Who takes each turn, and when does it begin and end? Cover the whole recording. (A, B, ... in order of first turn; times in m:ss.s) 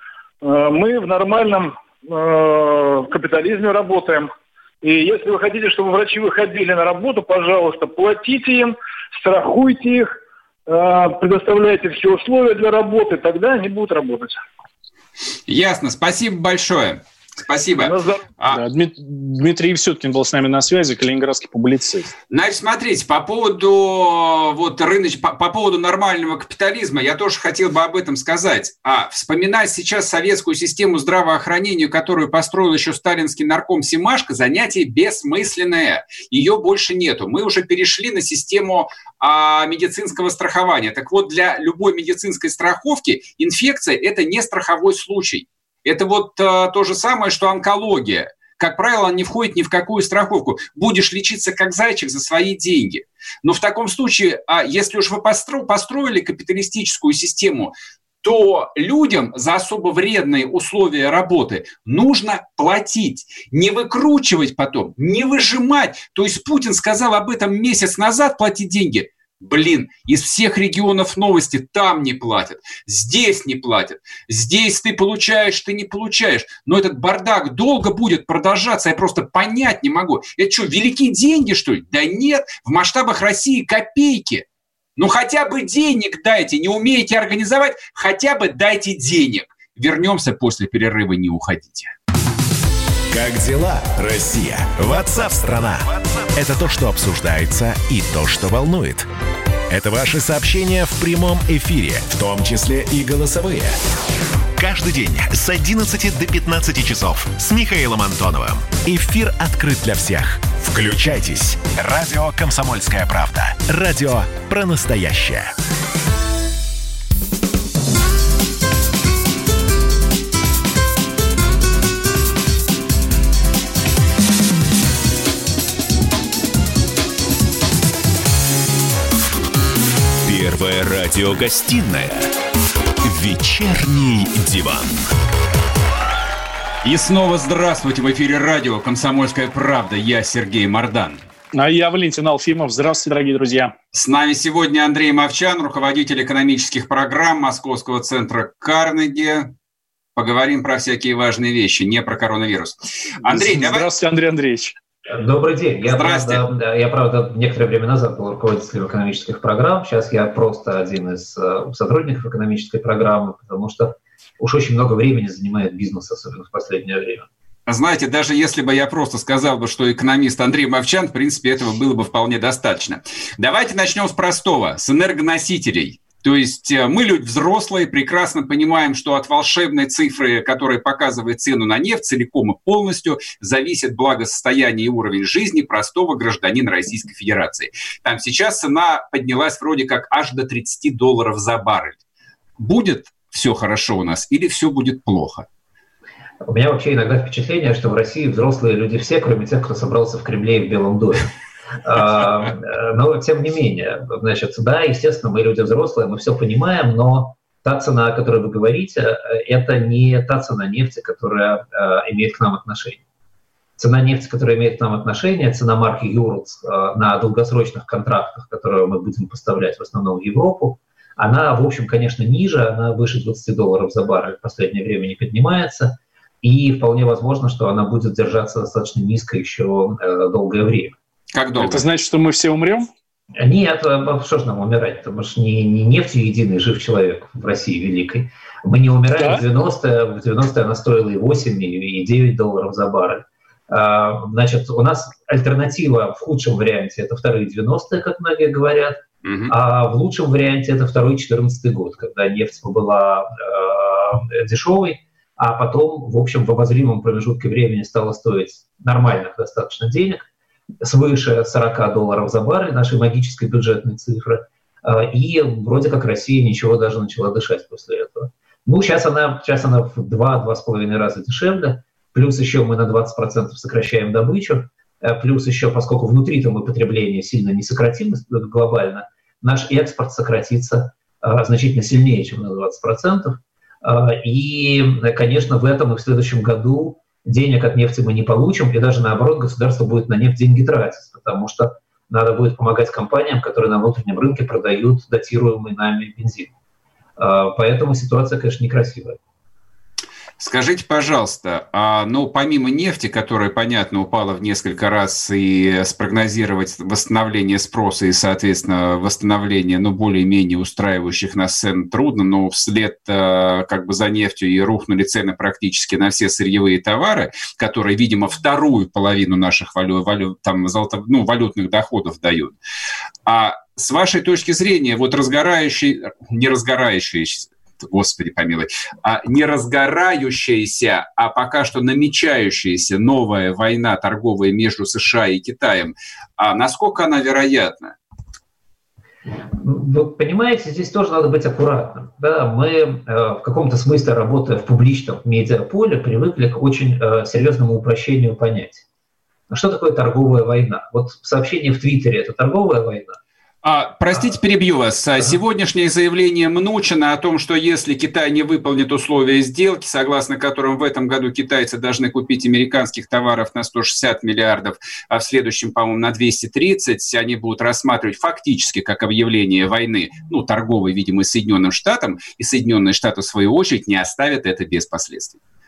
0:00.4-0:04.3 A
0:04.8-0:10.2 A
0:10.7-0:14.4 A
0:15.5-0:18.6 B
0:17.8-0:18.2 A
0:18.5-0:22.1 C
0:22.3-1:24.4 B
1:25.0-1:31.9 B
1:33.1-1:39.1 D
1:39.7-1:43.8 D
1:44.6-1:55.5 D
2:10.2-2:12.3 D
2:13.0-2:15.1 D
2:16.8-2:21.2 B
2:21.5-2:23.7 C
2:23.9-2:29.5 B
2:30.2-2:33.9 B
2:33.2-2:34.7 C
2:35.1-2:47.3 E
2:35.8-2:36.4 B
2:47.7-3:12.0 B
3:12.6-3:15.4 B
3:16.4-3:21.3 E
3:21.8-3:33.0 E
3:33.8-3:51.0 E
3:51.3-3:51.8 B
3:51.6-3:52.9 C
3:53.4-4:20.2 E
3:59.2-3:59.4 C
4:09.2-4:09.5 B
4:20.8-4:56.5 E
4:57.2-4:59.2 E
5:00.4-5:22.6 B
5:23.2-5:37.9 B
5:39.6-5:48.8 E
5:49.5-5:53.2 E
5:53.6-6:15.4 B